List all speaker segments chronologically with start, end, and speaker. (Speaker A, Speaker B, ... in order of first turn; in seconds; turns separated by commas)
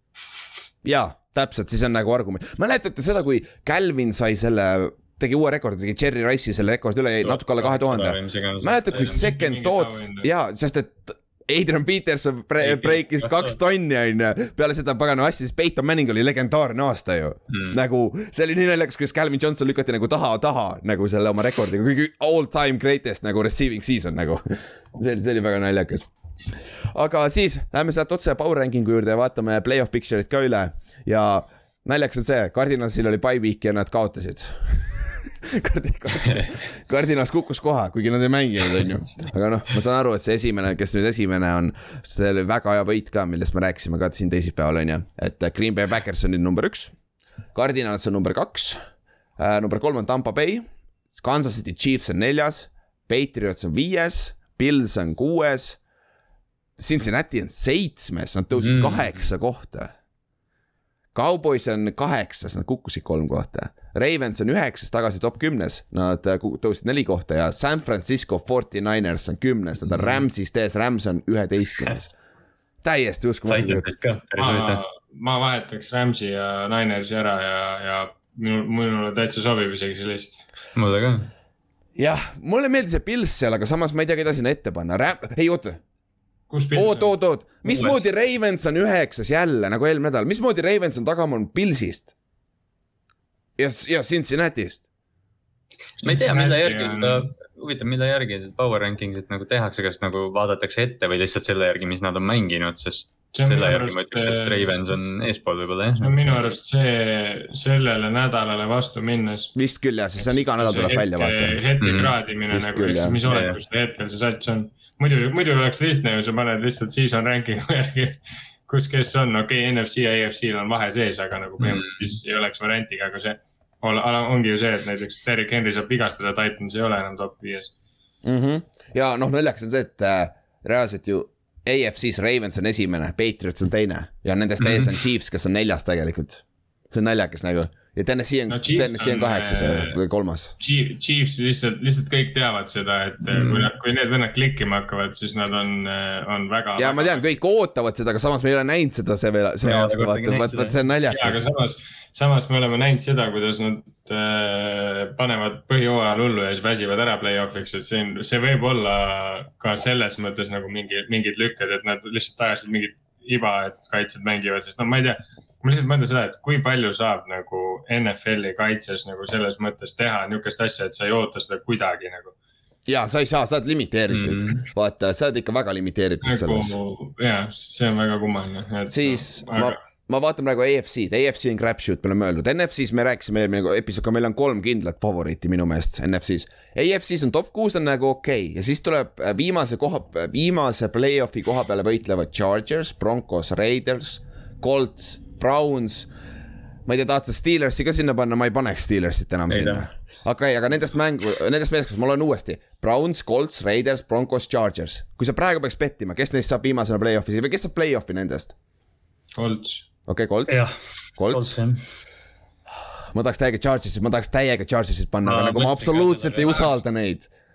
Speaker A: 0.8-26.1, Speaker B: 7.2-8.8, Speaker C: 8.9-10.3, Speaker B: 12.6-13.5, Speaker B: 17.5-17.8, Speaker A: 26.9-46.9, Speaker B: 36.2-36.5, Speaker A: 47.5-48.8, Speaker A: 49.4-55.8, Speaker A: 56.8-59.9, Speaker B: 58.6-59.1, Speaker A: 61.1-72.1, Speaker B: 69.9-70.2, Speaker A: 72.8-73.9, Speaker B: 73.5-74.8, Speaker C: 74.4-80.4, Speaker B: 80.8-81.3, Speaker A: 82.0-85.8, Speaker C: 86.5-87.1, Speaker A: 86.7-92.1, Speaker B: 87.6-88.0, Speaker A: 93.6-94.8, Speaker C: 96.0-97.3, Speaker B: 96.0-106.5, Speaker C: 103.3-104.9, Speaker C: 106.0-109.5, Speaker A: 109.5-111.6, Speaker C: 110.2-127.7, Speaker B: 111.8-112.1, Speaker A: 112.5-113.2, Speaker B: 113.2-113.6, Speaker B: 121.6-122.1, Speaker A: 128.2-140.5, Speaker B: 134.6-134.9, Speaker C: 138.5-140.0, Speaker C: 140.6-147.3, Speaker B: 143.3-143.7, Speaker A: 146.8-151.4, Speaker B: 149.6-150.8, Speaker C: 151.1-172.3, Speaker A: 172.9-176.8, Speaker B: 174.1-174.7, Speaker C: 176.2-179.8, Speaker A: 178.9-196.1, Speaker A: 196.9-208.5, Speaker B: 199.5-199.8, Speaker C: 209.3-209.8, Speaker A: 210.1-211.6, Speaker B: 210.5-211.8, Speaker A: 213.1-217.3, Speaker B: 215.2-216.7